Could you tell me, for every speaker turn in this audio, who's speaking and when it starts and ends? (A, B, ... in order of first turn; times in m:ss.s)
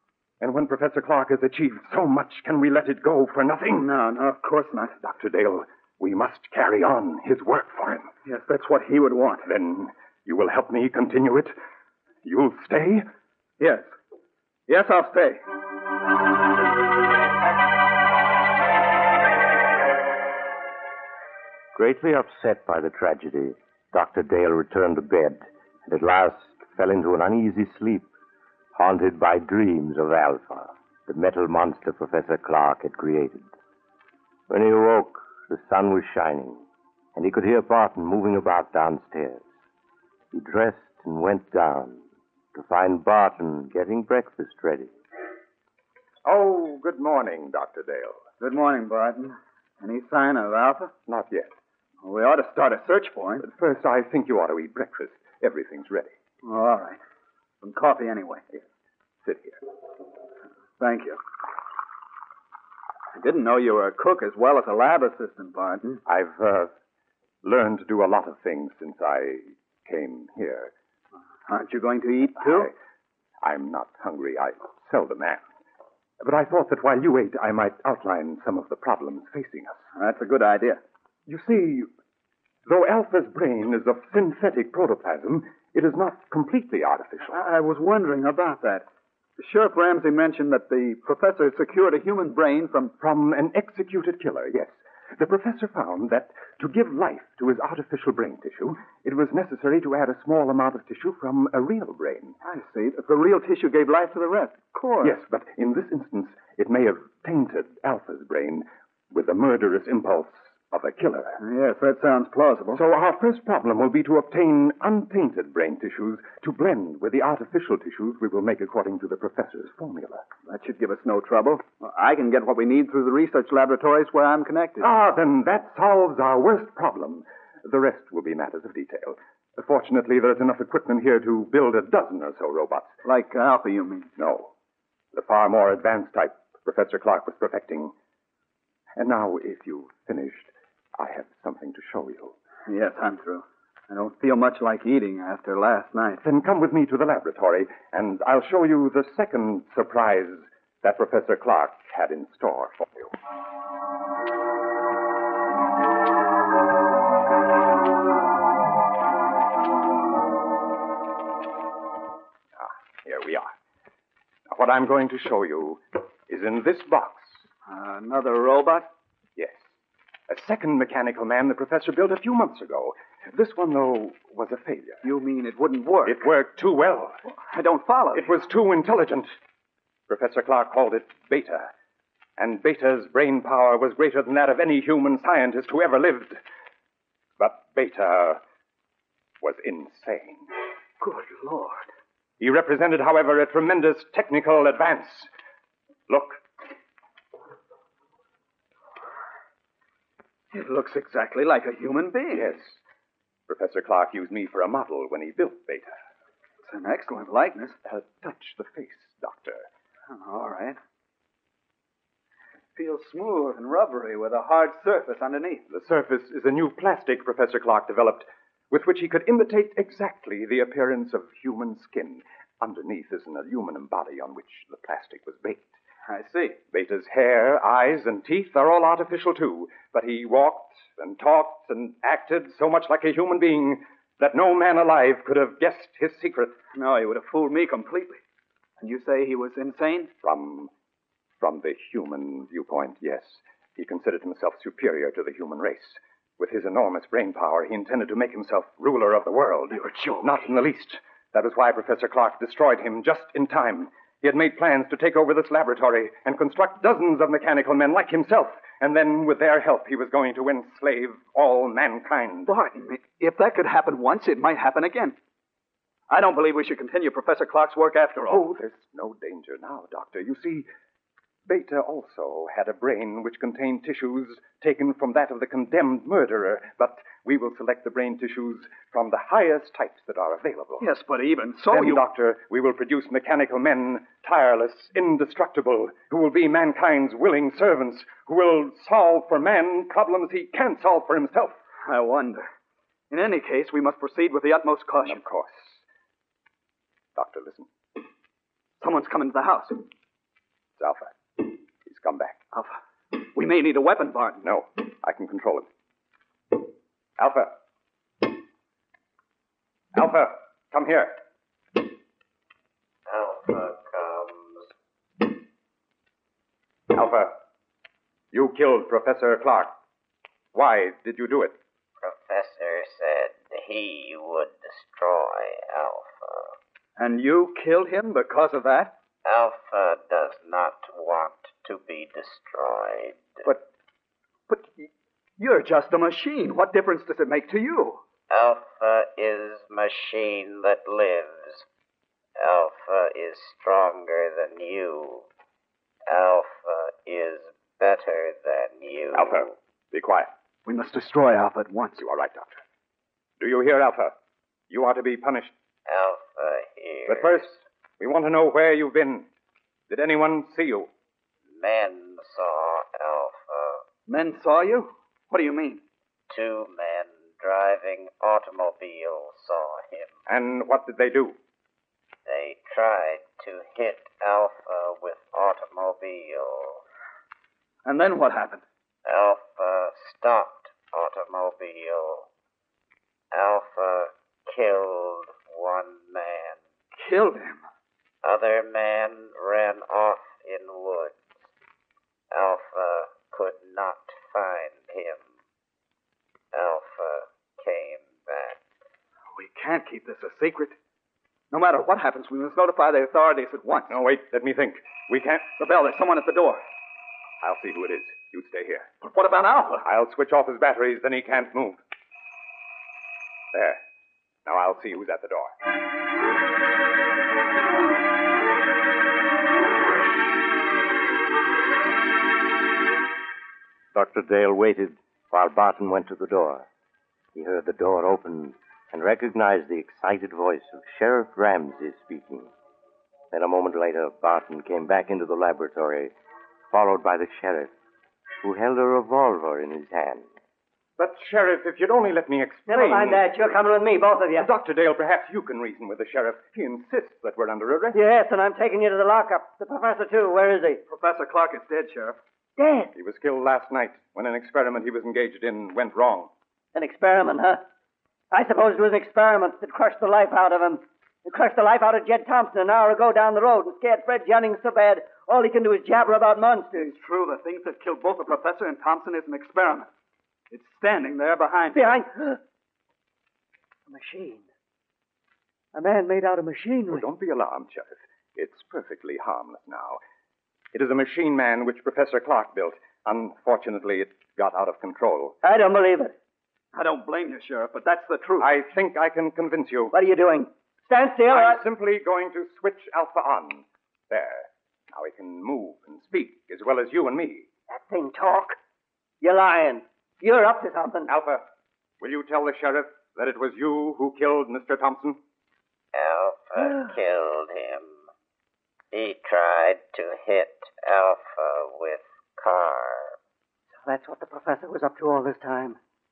0:00.4-0:03.9 A
0:03.7-0:05.0 B
0:05.0-0:08.1 A
0:08.2-0:09.5 B
0:09.4-0:11.6 A
0:12.2-0:13.0 A
0:13.6-0:13.9 B
0:14.7-0:15.4 B
0:21.7-0:28.1 C
0:28.8-0:33.5 C
0:34.5-0:39.5 C
0:40.3-0:42.0 C
0:42.5-0:44.9 C
0:46.2-0:48.3 A
0:48.4-0:50.9 B
0:51.1-0:51.5 A
0:52.0-0:53.4 B
0:53.4-0:56.1 A
0:56.4-0:57.0 B
0:57.6-0:58.4 B
0:59.2-0:59.6 A
1:00.8-1:01.2 B
1:03.1-1:06.0 B
1:06.0-1:06.7 A
1:07.4-1:10.7 A
1:11.5-1:12.7 B
1:12.4-1:12.7 A
1:13.4-1:15.4 A
1:16.2-1:19.8 A
1:20.0-1:20.8 B
1:21.3-1:21.9 A
1:22.7-1:27.4 A
1:27.3-1:28.9 B
1:29.4-1:32.9 B
1:33.0-1:42.4 A
1:42.4-1:45.2 B
1:45.0-1:51.4 A
1:51.4-1:52.8 B
1:52.7-2:00.3 A
2:00.5-2:04.9 B
2:04.8-2:13.0 A
2:13.0-2:14.1 B
2:14.2-2:14.5 A
2:15.1-2:17.9 A
2:19.0-2:22.4 A
2:22.7-2:26.2 B
2:26.2-2:33.1 A
2:42.6-2:43.5 A
2:44.5-2:47.4 A
2:47.7-2:48.9 B
2:49.4-2:49.6 A
2:50.3-2:55.0 A
2:55.0-2:56.3 B
2:56.1-2:57.2 A
2:57.5-2:58.3 B
2:58.1-2:59.3 A
3:00.1-3:01.7 A
3:02.4-3:06.4 A
3:07.4-3:08.4 A
3:09.4-3:10.5 A
3:11.0-3:11.9 B
3:12.4-3:15.3 A
3:16.1-3:16.4 A
3:20.5-3:22.5 B
3:22.3-3:22.8 A
3:23.5-3:26.0 A
3:26.6-3:27.8 B
3:27.8-3:29.7 A
3:30.1-3:30.8 B
3:32.8-3:35.6 B
3:35.7-3:45.8 A
3:46.1-3:46.6 B
3:46.7-3:56.6 A
3:56.7-3:58.2 B
3:58.8-4:00.1 B
4:00.2-4:00.7 A
4:01.4-4:22.5 A
4:09.7-4:10.4 B
4:22.5-4:25.2 B
4:26.1-4:28.4 B
4:28.3-4:30.7 A
4:31.5-4:40.9 A
4:40.8-4:42.0 B
4:41.7-4:51.6 A
4:51.9-4:52.5 B
4:53.1-4:55.2 B
4:55.0-4:55.8 A
4:57.2-4:57.7 A
4:58.8-4:59.8 B
5:00.8-5:02.4 A
5:02.5-5:04.4 B
5:04.4-5:05.7 A
5:07.2-5:07.5 A
5:09.9-5:11.2 A
5:13.1-5:14.7 D
5:16.9-5:17.3 A
5:18.3-5:19.7 A
5:20.5-5:21.6 A
5:22.0-5:26.6 D
5:27.0-5:28.9 B
5:29.2-5:33.5 D
5:34.5-5:38.0 B
5:38.3-5:41.7 D
5:42.4-5:45.3 D
5:46.1-5:49.5 D
5:49.2-5:50.3 A
5:50.7-5:52.0 B
5:52.0-5:52.6 A
5:53.4-5:54.1 A
5:54.7-5:55.5 A
5:55.9-5:57.5 D
5:57.1-5:59.3 A
5:59.9-6:00.9 A
6:01.5-6:03.8 D
6:04.1-6:05.8 B
6:06.3-6:10.1 D
6:10.3-6:11.4 A
6:12.3-6:16.8 D
6:17.8-6:18.6 B
6:19.0-6:22.3 D
6:23.3-6:26.6 D
6:27.0-6:27.6 B
6:28.2-6:31.2 D
6:32.3-6:35.3 D
6:36.5-6:38.6 D
6:39.4-6:40.8 B
6:41.5-6:44.0 B
6:43.9-6:45.5 A
6:45.6-6:46.6 B
6:47.4-6:48.9 A
6:49.0-6:49.9 B
6:49.8-6:51.8 A
6:53.5-6:53.8 A
6:54.5-6:55.5 A
7:03.9-7:06.7 C
7:07.4-7:12.5 C
7:13.3-7:16.1 C
7:16.7-7:17.7 C
7:18.4-7:20.3 C
7:21.0-7:23.3 A
7:22.7-7:24.5 E
7:24.4-7:28.0 A
7:27.9-7:30.8 E
7:30.9-7:32.2 B
7:32.6-7:32.9 E
7:32.9-7:36.3 A
7:36.8-7:37.6 E
7:38.3-7:46.9 E
7:46.8-7:49.9 B
7:50.5-7:51.9 B
7:51.8-7:52.4 E
7:53.9-7:54.4 E
7:55.7-7:57.0 E
7:56.9-8:00.0 A
8:00.7-8:05.4 A
8:05.4-8:06.1 E
8:06.7-8:08.5 B
8:08.4-8:09.9 A
8:09.9-8:11.6 E
8:11.3-8:17.5 A
8:17.7-8:18.6 E
8:19.2-8:21.1 E
8:21.1-8:21.4 A
8:22.0-8:25.2 A
8:25.9-8:28.0 D
8:26.6-8:26.9 E
8:28.9-8:33.2 D
8:33.8-8:35.8 E